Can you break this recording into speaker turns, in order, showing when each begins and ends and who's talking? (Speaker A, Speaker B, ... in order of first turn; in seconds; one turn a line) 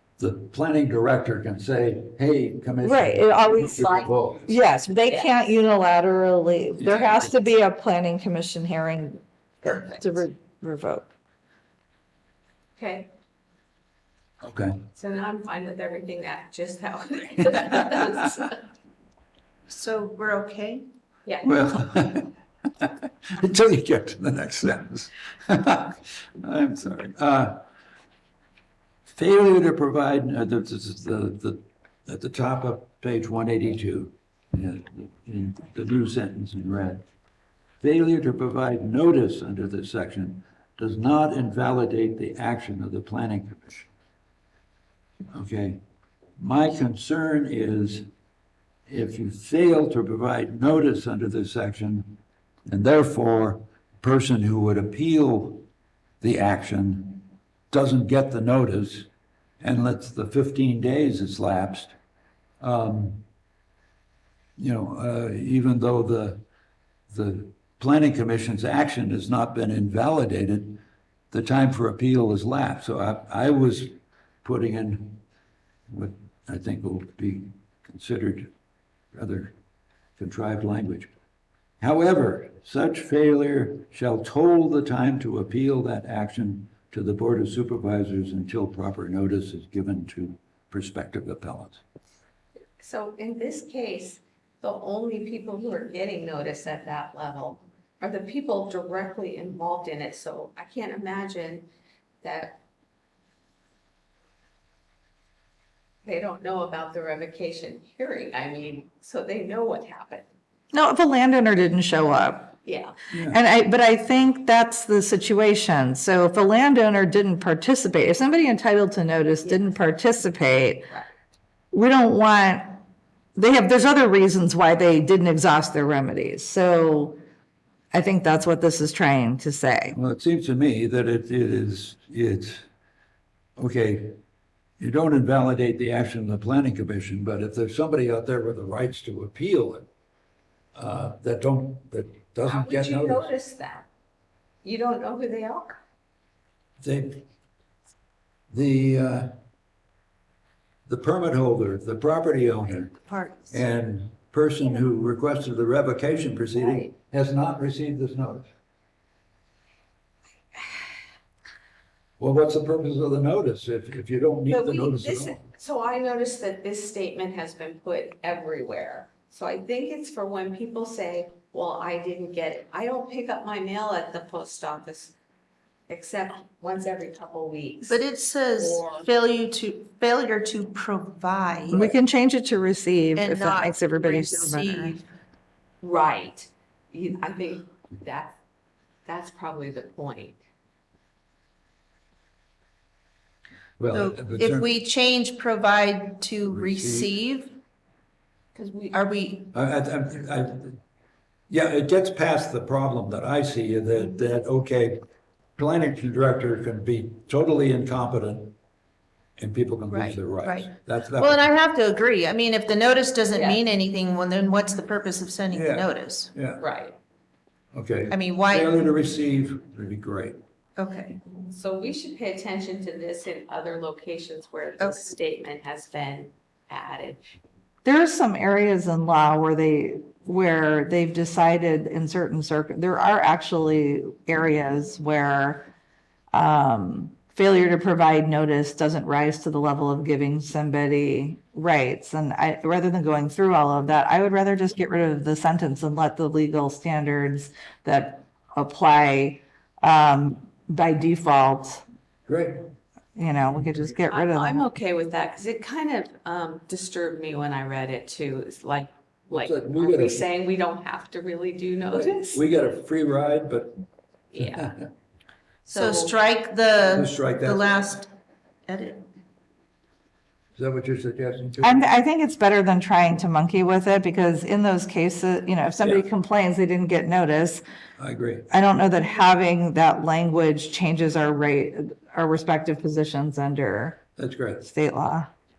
Speaker A: 0.2-4.5
Speaker B: 2.8-11.1
Speaker C: 5.0-5.4
Speaker A: 6.8-7.2
Speaker C: 7.0-7.3
Speaker C: 9.6-10.2
Speaker C: 12.8-13.1
Speaker A: 14.4-14.8
Speaker C: 14.9-18.6
Speaker D: 19.7-20.8
Speaker C: 21.2-21.5
Speaker A: 21.4-27.6
Speaker A: 29.1-37.0
Speaker A: 37.8-43.9
Speaker A: 45.3-45.8
Speaker A: 46.4-48.1
Speaker A: 48.9-55.7
Speaker A: 56.2-59.1
Speaker A: 59.6-61.9
Speaker A: 62.6-63.2
Speaker A: 64.6-66.4
Speaker A: 67.1-70.8
Speaker A: 71.3-75.2
Speaker A: 75.9-78.5
Speaker A: 79.1-79.5
Speaker A: 80.2-81.1
Speaker A: 81.8-91.8
Speaker C: 92.8-101.7
Speaker C: 102.2-102.6
Speaker C: 106.0-110.3
Speaker B: 110.7-112.5
Speaker C: 112.6-113.0
Speaker A: 113.1-113.4
Speaker B: 113.3-120.9
Speaker C: 119.4-119.8
Speaker B: 121.7-122.8
Speaker B: 123.3-127.2
Speaker B: 127.9-129.9
Speaker A: 129.9-132.6
Speaker A: 133.6-134.2
Speaker A: 134.8-139.9
Speaker A: 140.8-143.3
Speaker C: 142.4-143.9
Speaker C: 144.6-145.8
Speaker A: 146.8-147.2
Speaker A: 148.5-149.3
Speaker A: 150.9-153.0
Speaker D: 153.1-153.6
Speaker A: 153.5-158.5
Speaker C: 156.5-156.9
Speaker A: 162.2-165.4
Speaker C: 164.5-175.2
Speaker C: 175.9-178.0
Speaker D: 177.9-181.9
Speaker C: 178.6-179.1
Speaker B: 181.7-184.9
Speaker D: 183.2-185.0
Speaker C: 185.8-188.4
Speaker C: 189.1-190.4
Speaker A: 193.8-194.7
Speaker D: 193.9-197.6
Speaker A: 196.4-197.1
Speaker C: 198.5-199.1
Speaker D: 198.9-199.5
Speaker A: 199.5-200.8
Speaker A: 201.5-205.0
Speaker A: 205.6-208.5
Speaker A: 209.4-211.5
Speaker D: 209.9-216.3
Speaker C: 213.3-213.6
Speaker A: 215.5-216.6
Speaker C: 216.6-217.0
Speaker A: 217.7-220.4
Speaker D: 218.1-218.9
Speaker D: 220.8-221.2
Speaker C: 221.5-227.4
Speaker D: 224.8-225.1
Speaker B: 227.8-235.7
Speaker B: 236.3-251.8
Speaker A: 252.3-252.6
Speaker B: 253.2-254.6
Speaker C: 254.1-262.4
Speaker A: 259.3-260.2
Speaker A: 261.9-263.8
Speaker C: 264.3-264.7
Speaker A: 264.4-264.7
Speaker C: 265.6-266.1
Speaker D: 265.7-268.1
Speaker A: 266.8-267.9
Speaker D: 268.7-269.0
Speaker A: 270.6-271.9
Speaker B: 271.6-277.6
Speaker A: 278.0-278.5
Speaker B: 278.5-284.0
Speaker A: 284.2-284.6
Speaker B: 284.6-285.3